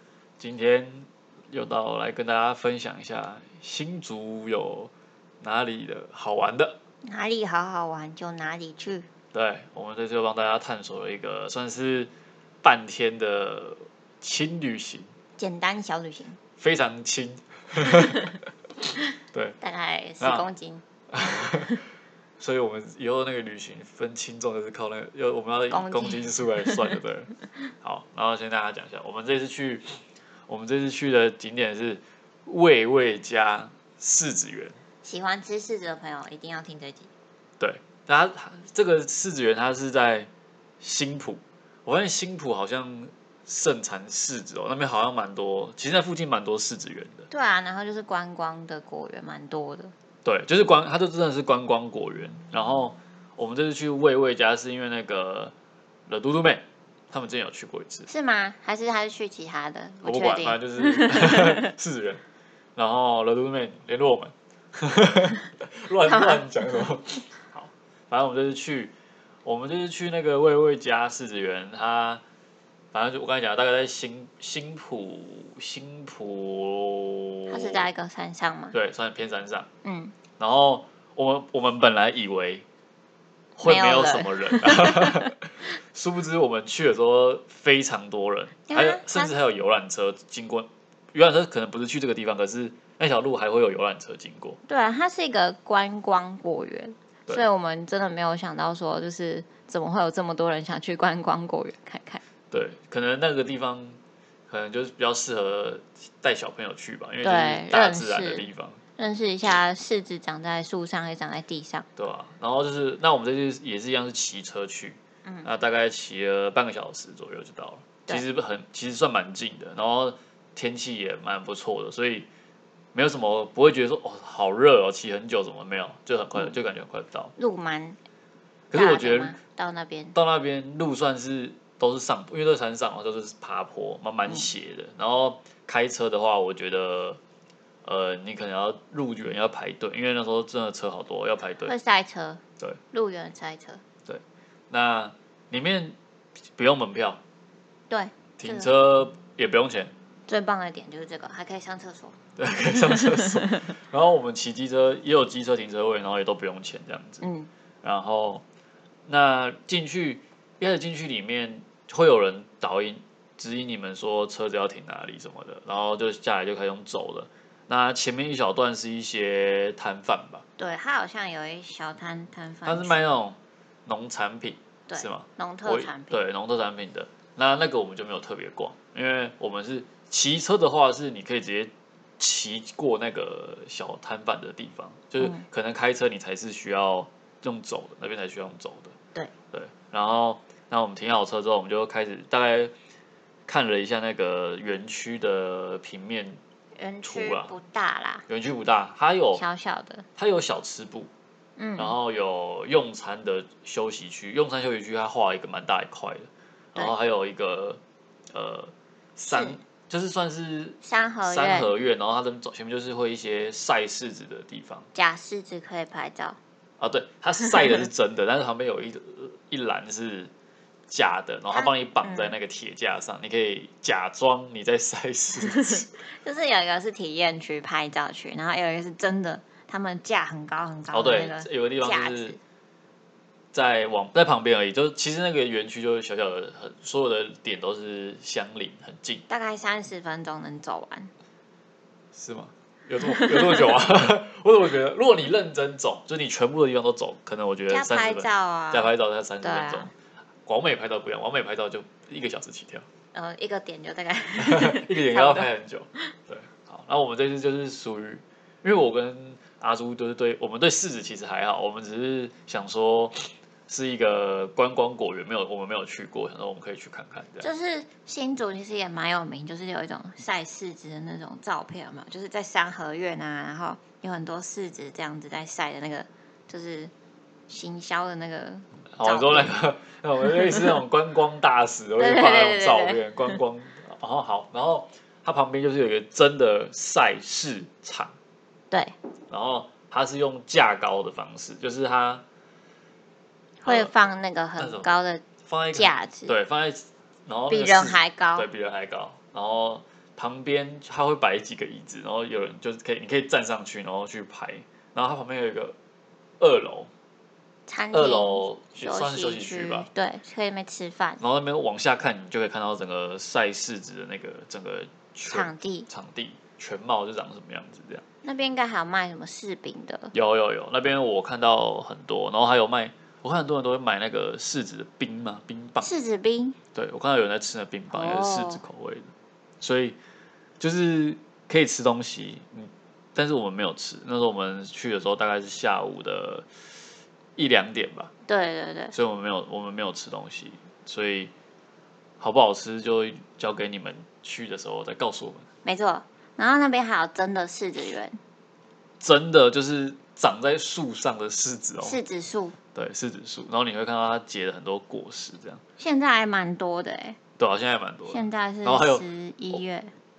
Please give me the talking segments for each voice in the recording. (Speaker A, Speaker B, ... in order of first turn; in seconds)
Speaker A: 0.4-6.8, 9.3-12.1, 12.6-15.1, 16.6-18.3, 19.3-19.6, 20.2-20.5, 21.1-21.8, 22.4-30.0, 30.5-34.8, 37.6-40.3, 40.8-47.3, 50.2-55.5, 56.1-58.1, 60.0-62.2, 62.8-68.9, 69.5-72.2, 72.9-77.9, 78.7-79.7, 80.4-82.7, 83.6-94.6, 102.5-108.8, 112.0-122.3, 123.0-127.3, 128.7-129.4, 130.2-137.2, 137.8-141.8, 144.1-146.0, 146.6-147.2, 148.4-149.9, 152.4-157.2, 157.8-158.4, 159.1-170.4, 172.7-188.9, 189.5-192.7, 193.5-196.4, 197.0-197.5, 198.3-199.4, 200.2-201.1, 201.8-207.8, 208.3-214.9, 216.8-220.3, 220.9-226.0, 230.9-232.4, 233.5-239.2, 242.1-249.9, 250.5-252.9, 254.4-267.5, 278.9-288.1, 289.3-292.2, 293.6-293.9, 294.6-305.8, 306.4-306.9, 307.9-309.9, 311.2-318.0, 320.1-325.9, 326.8-330.0, 330.6-336.5, 337.4-338.1, 338.9-341.3, 342.2-345.4, 349.0-352.0, 352.8-355.6, 357.4-359.6
Speaker B: 7.0-9.1, 15.4-16.4, 19.6-20.8, 25.7-26.9, 35.0-37.1, 47.3-49.9, 58.1-61.7, 66.0-66.8, 77.5-78.8, 79.8-80.2, 83.6-85.3, 88.7-89.3, 94.7-102.2, 107.2-111.9, 127.4-128.0, 128.7-130.2, 141.7-143.8, 147.9-148.7, 150.3-152.2, 152.9-153.3, 157.2-157.5, 170.6-173.0, 174.9-176.2, 196.8-198.3, 199.3-200.1, 201.6-202.0, 209.3-209.6, 210.8-211.7, 214.9-216.4, 221.5-222.4, 225.4-232.4, 239.3-241.1, 247.7-248.9, 249.4-249.9, 253.1-255.5, 267.4-276.9, 277.5-279.6, 280.2-280.8, 282.0-283.4, 293.6-296.4, 297.5-298.5, 307.7-311.2, 315.3-315.9, 318.2-320.1, 325.8-326.6, 327.9-328.6, 338.3-338.9, 345.6-348.2, 351.8-352.6, 355.8-357.2, 358.1-359.9